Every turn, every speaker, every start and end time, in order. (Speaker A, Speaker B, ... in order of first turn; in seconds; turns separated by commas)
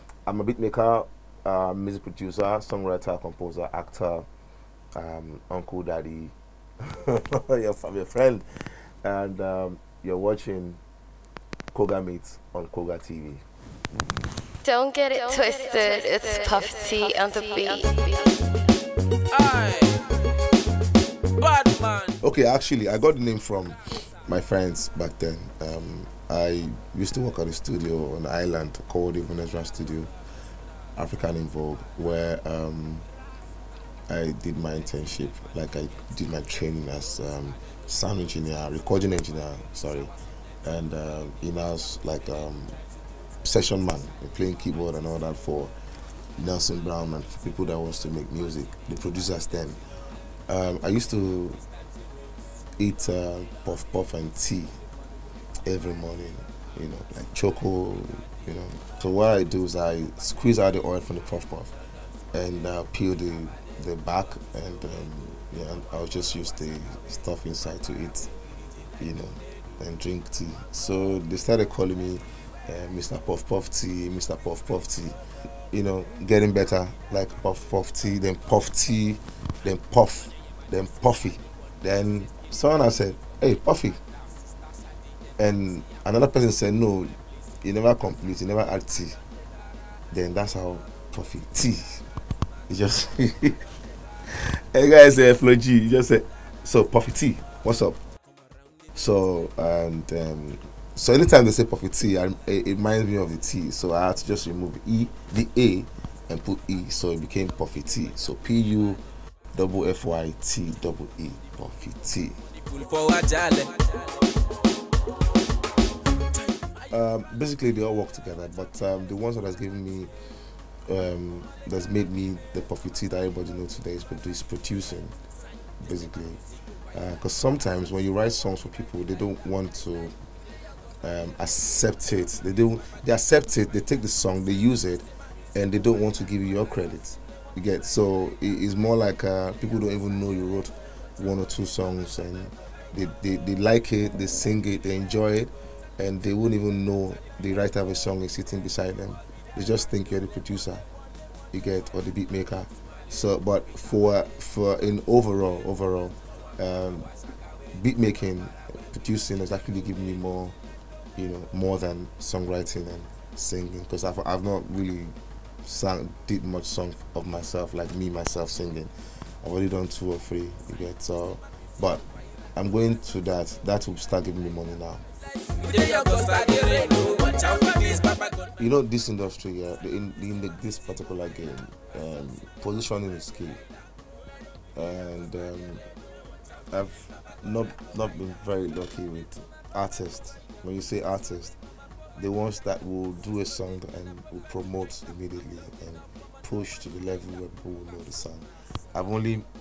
Speaker A: 0.3-4.3, Speaker A: 5.0-10.8, Speaker A: 11.7-13.4, Speaker B: 14.6-18.4, Speaker C: 19.3-20.1, Speaker C: 21.4-22.1, Speaker A: 22.2-30.1, Speaker A: 31.0-33.1, Speaker A: 34.1-40.1, Speaker A: 40.6-42.7, Speaker A: 43.4-45.7, Speaker A: 46.4-49.8, Speaker A: 50.5-51.6, Speaker A: 52.8-54.7, Speaker A: 55.6-61.7, Speaker A: 62.3-68.3, Speaker A: 69.0-75.2, Speaker A: 75.7-84.0, Speaker A: 85.4-89.2, Speaker A: 90.1-92.0, Speaker A: 92.7-93.6, Speaker A: 94.3-98.0, Speaker A: 98.9-109.0, Speaker A: 109.5-112.4, Speaker C: 112.8-113.8, Speaker A: 116.8-120.1, Speaker A: 120.9-125.1, Speaker A: 125.8-126.4, Speaker A: 126.9-130.1, Speaker A: 131.0-150.8, Speaker A: 151.5-157.1, Speaker A: 157.7-160.6, Speaker A: 161.2-175.0, Speaker C: 175.7-178.3, Speaker A: 178.6-183.6, Speaker A: 184.8-185.8, Speaker A: 186.7-191.6, Speaker A: 192.2-199.4